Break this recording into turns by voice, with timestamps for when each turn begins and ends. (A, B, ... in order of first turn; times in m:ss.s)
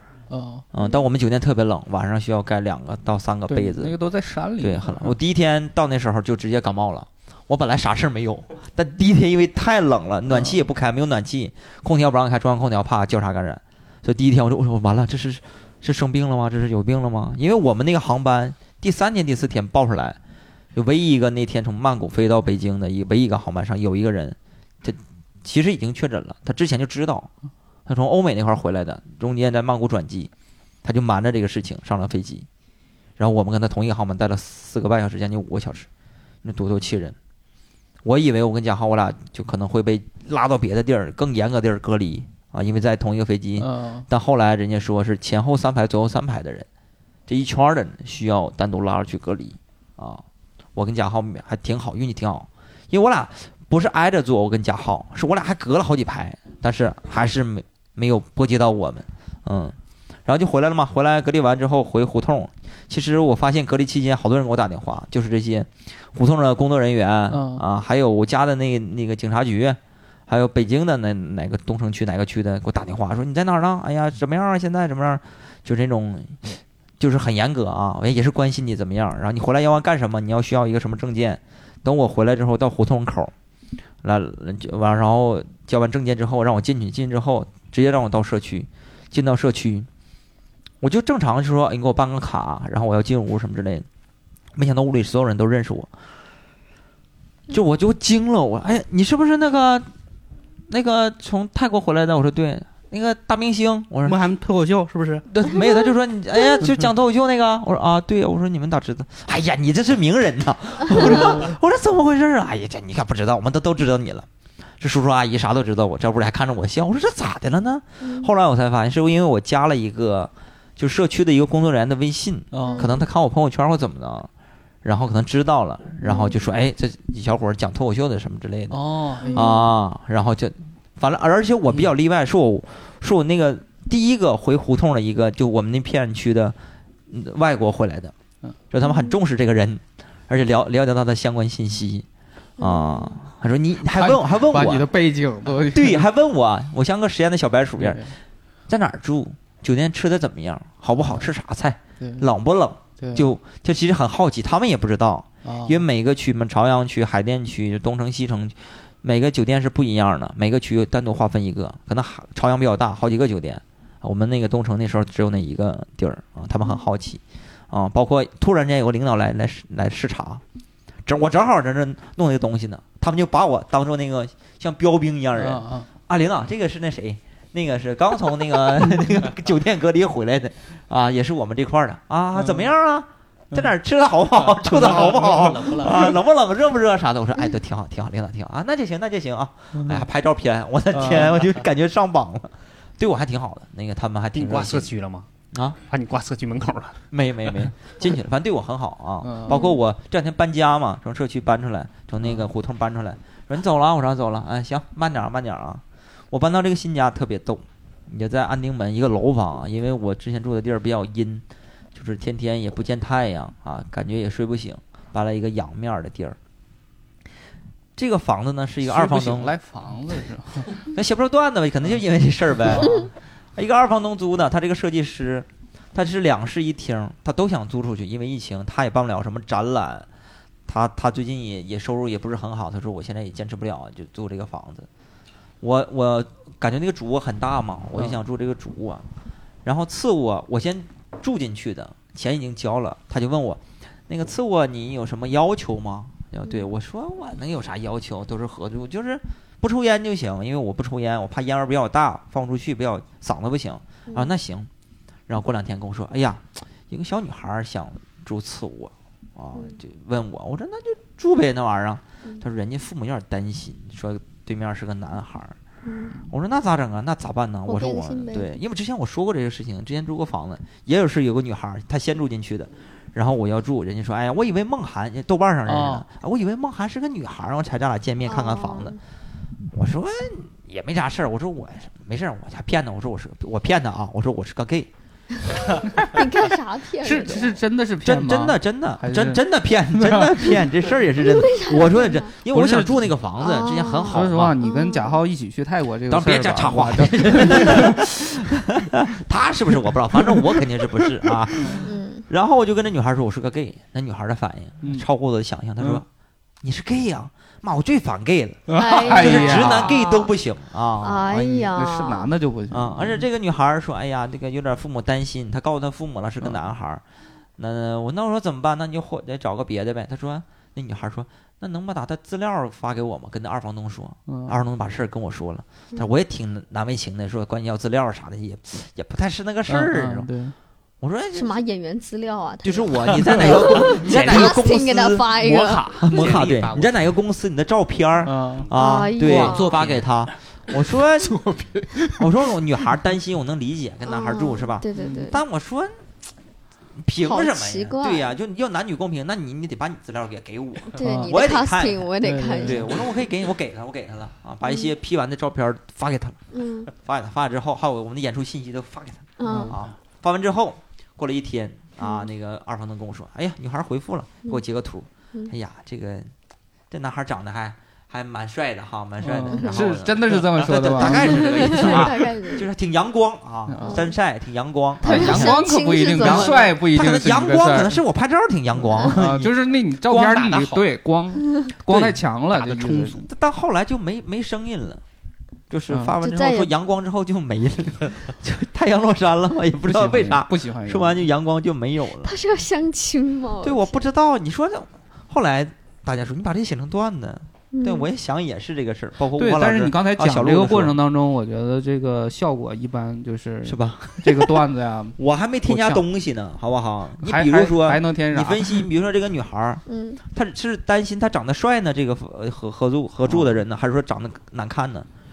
0:00.3-0:00.6 A
0:00.7-0:03.9 B
0:03.5-0:05.2 A
0:04.6-0:20.2 B
0:10.3-0:10.6 A
0:20.7-0:27.3 B
0:27.8-0:30.3 B
0:30.8-0:32.5 B
0:33.2-0:35.9 B
0:36.4-0:37.2 B
0:38.0-0:46.6 B
0:43.6-0:44.1 A
0:47.3-0:50.2 B
0:50.8-1:23.3 B
1:07.3-1:07.6 A
1:24.0-1:29.9 B
1:30.8-1:33.8 B
1:34.6-1:35.9 B
1:37.5-1:39.9 B
1:40.7-1:44.2 B
1:44.0-1:45.2 C
1:45.3-1:54.3 B
1:45.6-1:45.9 D
1:54.8-2:04.3 B
1:58.0-1:58.3 D
2:02.5-2:02.9 A
2:02.6-2:03.0 D
2:04.8-2:16.6 B
2:06.1-2:06.4 D
2:08.7-2:09.5 A
2:09.2-2:09.7 D
2:17.1-2:18.1 B
2:18.7-2:22.0 B
2:18.8-2:19.2 D
2:22.6-2:23.2 D
2:22.6-2:24.8 B
2:23.8-2:26.0 A
2:25.7-2:28.1 B
2:27.8-2:28.1 A
2:28.7-2:50.4 B
2:31.0-2:31.3 A
2:32.0-2:32.3 A
2:33.0-2:33.3 A
2:35.4-2:35.8 A
2:51.0-3:14.9 B
2:55.3-2:55.9 A
3:02.3-3:02.7 A
3:04.4-3:06.1 A
3:09.8-3:10.0 A
3:10.9-3:11.4 A
3:14.3-3:15.3 E
3:15.5-3:15.8 B
3:15.9-3:17.6 E
3:17.1-3:31.4 B
3:19.2-3:19.6 A
3:19.5-3:19.8 D
3:22.2-3:22.5 A
3:31.9-3:36.4 B
3:38.0-3:39.5 B
3:38.8-3:40.8 A
3:40.9-3:50.1 B
3:50.7-3:54.9 B
3:55.6-3:59.0 B
3:57.9-3:58.2 A
3:59.6-4:14.7 B
4:14.1-4:14.3 D
4:15.3-4:25.6 B
4:19.5-4:19.8 D
4:25.8-4:26.2 D
4:26.3-4:39.0 B
4:27.6-4:28.5 D
4:35.6-4:36.1 A
4:38.2-4:39.0 D
4:39.7-4:44.9 B
4:46.0-4:47.6 D
4:47.0-4:50.7 A
4:48.0-4:54.5 B
4:51.2-4:52.3 D
4:52.4-4:53.1 A
4:53.4-4:55.2 D
4:54.0-4:58.4 A
4:56.1-5:06.1 B
5:00.1-5:01.9 A
5:01.8-5:02.3 D
5:04.8-5:05.1 A
5:06.6-5:11.7 B
5:08.7-5:10.0 A
5:08.7-5:10.3 D
5:11.0-5:12.3 D
5:11.4-5:13.2 A
5:12.7-5:17.0 B
5:17.6-5:30.3 B
5:24.3-5:24.6 A
5:29.7-5:30.5 A
5:31.0-5:31.6 B
5:31.3-5:36.0 D
5:32.6-5:41.4 B
5:36.0-5:36.8 C
5:36.0-5:36.9 E
5:38.2-5:38.7 A
5:38.7-5:39.8 D
5:39.2-5:40.1 C
5:41.2-5:42.2 C
5:42.1-5:46.0 B
5:44.0-5:45.4 D
5:44.9-5:45.3 A
5:47.0-5:56.4 B
5:47.2-5:48.3 D
5:50.9-5:52.9 D
5:51.0-5:51.4 A
5:52.2-5:53.0 A
5:54.6-5:54.9 D
5:56.5-5:56.9 D
5:56.9-6:06.3 B
5:59.4-5:59.7 D
5:59.4-5:59.8 A
6:02.0-6:02.3 D
6:06.9-6:19.5 B
6:09.2-6:12.2 A
6:09.5-6:09.8 D
6:11.0-6:12.7 D
6:13.7-6:14.1 A
6:13.8-6:14.2 D
6:15.0-6:18.0 A
6:15.0-6:16.7 D
6:19.0-6:23.3 A
6:20.0-6:20.8 B
6:21.9-6:22.2 B
6:22.8-6:25.0 B
6:25.7-6:32.4 B
6:25.9-6:26.2 A
6:26.2-6:26.7 D
6:29.8-6:31.3 A
6:32.2-6:34.1 D
6:33.6-6:40.9 B
6:37.7-6:38.1 D
6:39.3-6:46.0 A
6:43.6-6:44.6 B
6:45.2-6:55.1 B
6:47.2-6:48.9 A
6:49.8-6:50.2 D
6:53.2-6:53.6 A